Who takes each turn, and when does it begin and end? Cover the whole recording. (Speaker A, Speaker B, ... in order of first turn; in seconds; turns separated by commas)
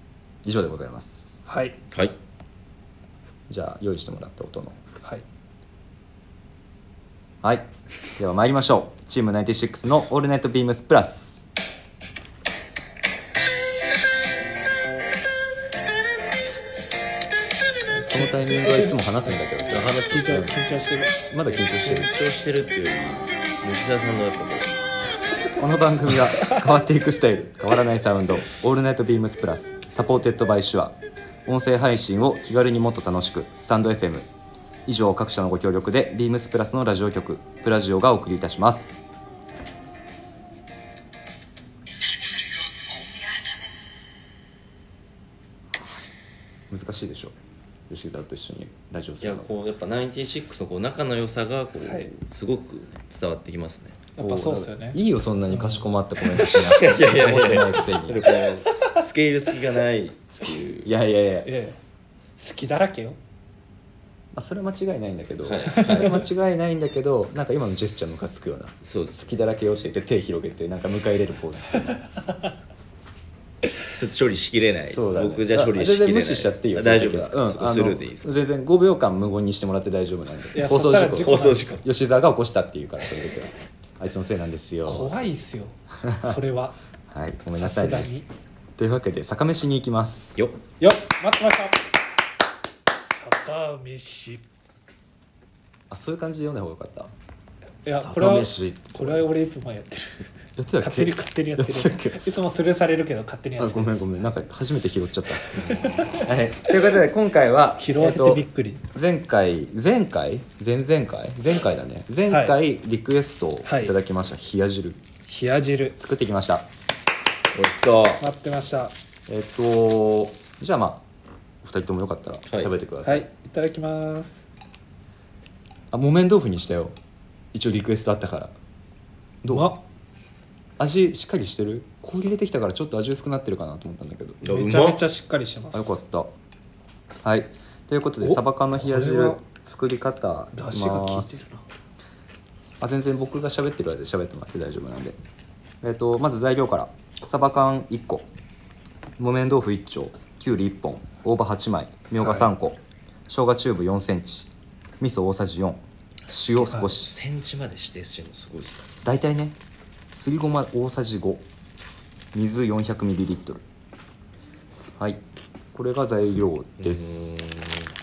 Speaker A: 0.4-1.4, Speaker B: 1.5-1.8, Speaker A: 3.5-4.8, Speaker A: 7.4-11.5, Speaker B: 17.9-19.0, Speaker A: 18.1-20.6, Speaker C: 19.7-20.4, Speaker B: 19.8-21.2, Speaker A: 21.3-22.1, Speaker C: 21.7-24.8, Speaker A: 25.6-34.3, Speaker A: 34.9-39.0, Speaker A: 45.8-46.1, Speaker A: 46.7-47.4, Speaker A: 47.9-49.5, Speaker C: 49.2-54.0, Speaker B: 51.9-52.1, Speaker B: 54.2-56.6, Speaker A: 54.2-58.3, Speaker C: 56.6-60.9, Speaker B: 58.3-59.0, Speaker A: 60.9-61.5, Speaker B: 61.5-61.8, Speaker B: 62.4-63.2, Speaker A: 64.3-72.0, Speaker C: 65.4-66.2, Speaker B: 65.7-66.2, Speaker C: 68.8-69.2, Speaker C: 74.0-78.3, Speaker A: 74.9-85.1, Speaker B: 80.5-81.8, Speaker C: 81.2-81.8, Speaker B: 84.9-86.8, Speaker A: 86.0-86.4, Speaker A: 87.1-88.1, Speaker B: 87.5-88.3, Speaker A: 88.8-90.4, Speaker B: 90.8-91.9, Speaker B: 93.1-94.4, Speaker A: 95.9-97.1, Speaker B: 97.8-100.3, Speaker A: 97.9-99.3, Speaker A: 100.6-102.2, Speaker B: 100.8-104.1, Speaker A: 103.6-115.0, Speaker B: 105.4-106.9, Speaker B: 107.8-108.8, Speaker B: 112.3-112.6, Speaker B: 113.6-113.9, Speaker B: 115.3-116.0, Speaker A: 116.0-116.7, Speaker C: 117.5-118.2, Speaker B: 118.2-118.9, Speaker A: 119.3-121.0, Speaker A: 121.6-123.3, Speaker C: 122.5-122.7, Speaker B: 123.0-124.5, Speaker A: 125.9-127.0, Speaker A: 127.5-128.5, Speaker A: 129.4-129.7, Speaker B: 129.5-129.8, Speaker A: 130.8-134.4, Speaker B: 134.4-136.0, Speaker C: 134.4-135.0, Speaker A: 135.7-136.3, Speaker A: 137.2-141.4, Speaker B: 138.2-139.4, Speaker B: 140.5-141.6, Speaker A: 142.8-145.2, Speaker A: 145.8-148.3, Speaker A: 149.2-157.2, Speaker B: 152.2-152.5, Speaker C: 156.3-158.9, Speaker B: 156.6-156.9, Speaker A: 159.0-159.6, Speaker A: 160.1-161.4, Speaker A: 162.3-163.6, Speaker A: 165.7-167.4, Speaker C: 166.8-167.9